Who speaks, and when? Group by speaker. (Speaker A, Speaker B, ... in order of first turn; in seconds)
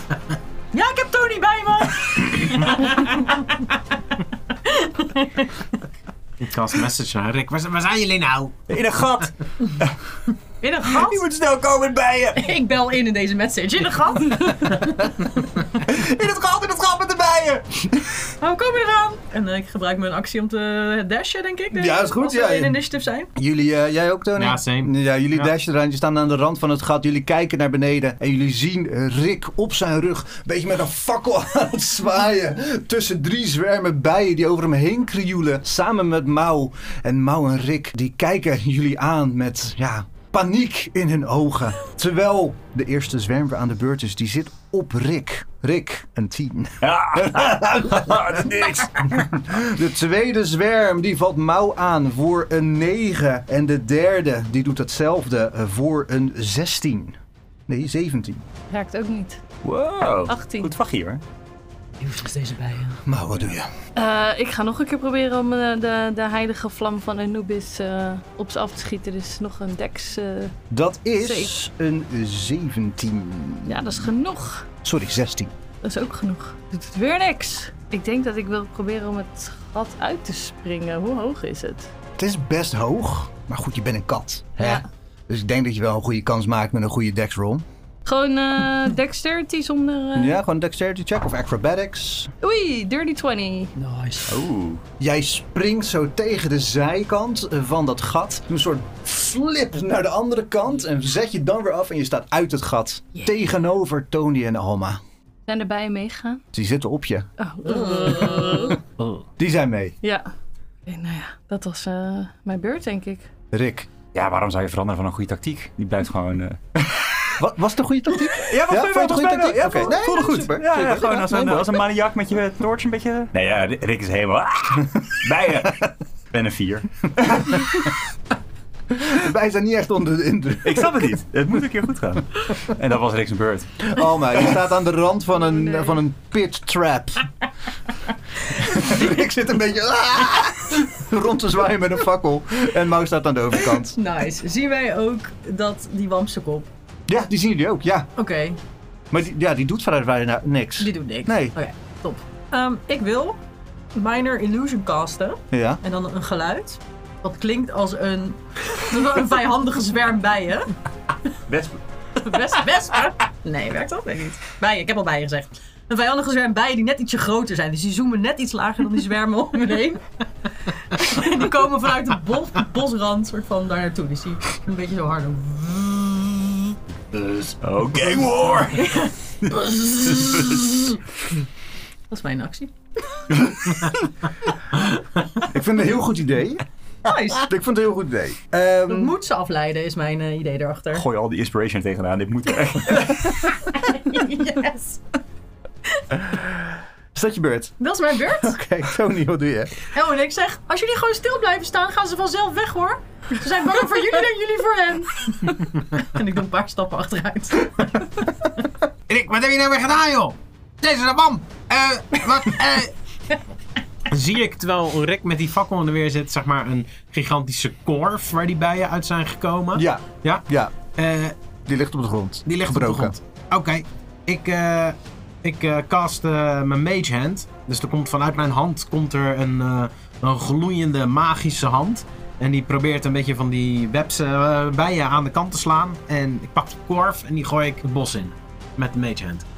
Speaker A: 0.7-3.8, 4.5-5.6, 10.6-11.2, 12.3-15.1, 18.4-23.3, 62.0-63.0, 93.8-94.4, 107.7-108.8, 143.7-146.7, 148.2-148.6, 150.8-153.4, 153.9-160.7, 162.2-176.7, 178.7-180.9, 182.1-182.7, 187.0-187.5, 188.9-191.0, 193.7-195.0, 197.8-198.6, 199.9-208.3
Speaker B: 6.4-8.6, 24.4-25.5, 209.1-212.9, 214.1-221.3, 222.5-239.4
Speaker C: 8.7-9.9, 10.8-12.5, 15.8-18.3, 46.8-49.2, 59.6-61.2, 94.3-94.8, 114.1-117.3, 118.2-127.9, 130.6-133.9, 161.5-161.8, 177.6-179.0, 190.9-193.7
Speaker D: 21.7-22.8, 23.4-58.4, 63.0-63.7, 70.7-74.0, 74.8-75.5, 82.2-87.6, 90.1-92.3, 95.0-105.0, 106.5-107.3, 109.4-110.0, 113.5-113.9, 117.4-121.8, 127.2-127.8, 129.0-131.2, 133.8-137.3, 138.5-144.0, 147.1-148.1, 149.1-151.5, 155.5-155.8, 185.4-186.6, 187.3-189.1, 196.3-199.8, 219.7-220.7, 221.7-223.2
Speaker E: 58.7-59.4, 60.3-60.7, 64.0-70.5, 71.2-71.5, 73.6-74.7, 75.8-81.9, 84.6-84.8, 88.0-90.4, 92.4-93.7, 105.5-106.4, 107.4-108.8, 110.0-110.3, 110.8-113.3